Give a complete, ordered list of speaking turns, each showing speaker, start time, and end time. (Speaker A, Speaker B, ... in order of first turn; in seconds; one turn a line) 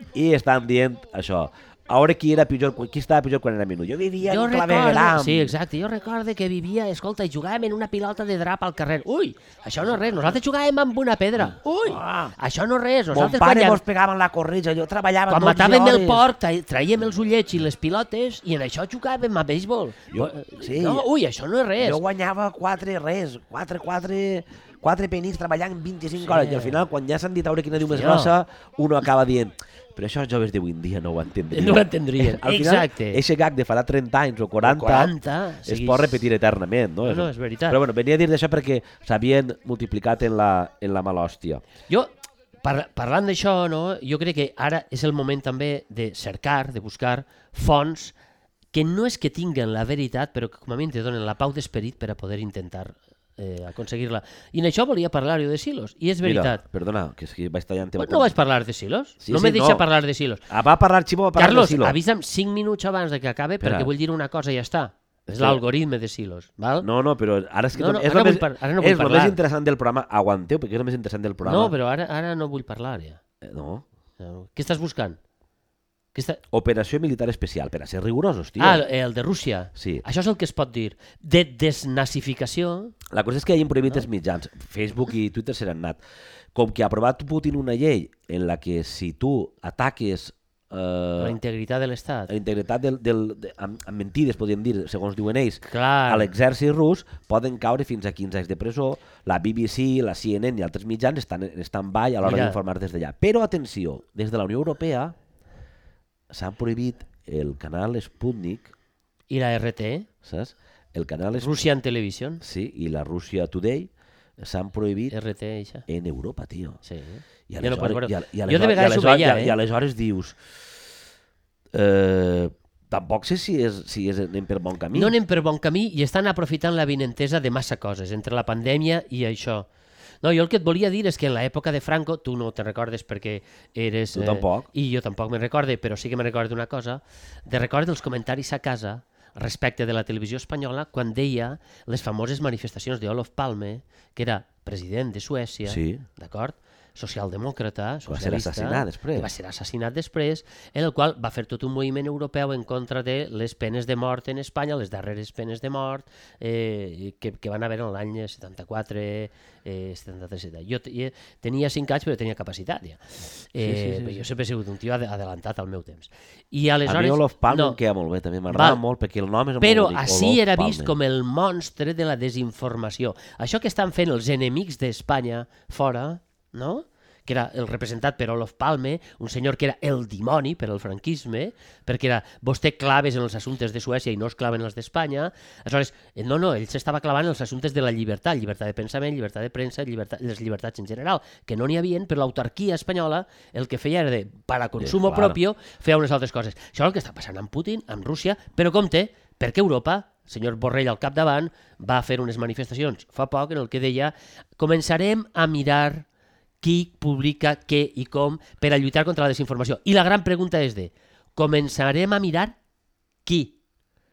Speaker A: 0.1-5.5
Speaker B: 4.2-13.8
Speaker A: 11.4-12.3
Speaker A: 13.1-16.2
Speaker B: 15.3-22.0
Speaker A: 20.1-21.1
Speaker A: 21.8-41.6
Speaker B: 26.2-26.9
Speaker B: 27.9-28.4
Speaker B: 31.5-33.2
Speaker B: 34.6-36.2
Speaker B: 37.0-37.8
Speaker B: 42.6-48.1
Speaker B: 48.7-56.6
Speaker A: 56.2-58.3
Speaker B: 58.0-60.4
Speaker A: 59.2-59.8
Speaker A: 60.5-62.0
Speaker B: 61.4-66.9
Speaker A: 63.6-63.9
Speaker A: 65.3-65.6
Speaker A: 66.8-71.7
Speaker B: 67.8-69.4
Speaker B: 71.4-73.2
Speaker A: 73.4-73.8
Speaker B: 74.2-75.2
Speaker B: 76.1-76.4
Speaker A: 76.5-78.8
Speaker B: 78.6-83.0
Speaker A: 79.8-80.0
Speaker A: 83.1-86.0
Speaker A: 86.5-91.4
Speaker B: 91.2-92.3
Speaker A: 92.3-105.1
Speaker B: 95.6-96.3
Speaker B: 102.2-102.6
Speaker A: 106.3-108.7
Speaker B: 109.3-110.1
Speaker A: 110.2-111.5
Speaker B: 111.4-112.4
Speaker A: 112.4-115.2
Speaker B: 115.1-115.8
Speaker A: 115.9-116.8
Speaker B: 116.8-119.5
Speaker A: 117.5-120.4
Speaker A: 121.7-125.1
Speaker B: 124.9-129.7
Speaker B: 130.2-167.8
Speaker A: 134.1-134.7
Speaker A: 145.7-146.0
Speaker A: 148.1-149.3
Speaker A: 163.6-164.2
Speaker A: 166.8-170.9
Speaker B: 168.5-168.8
Speaker B: 169.6-206.1
Speaker A: 194.8-195.4
Speaker B: 206.6-212.6
Speaker B: 213.2-213.6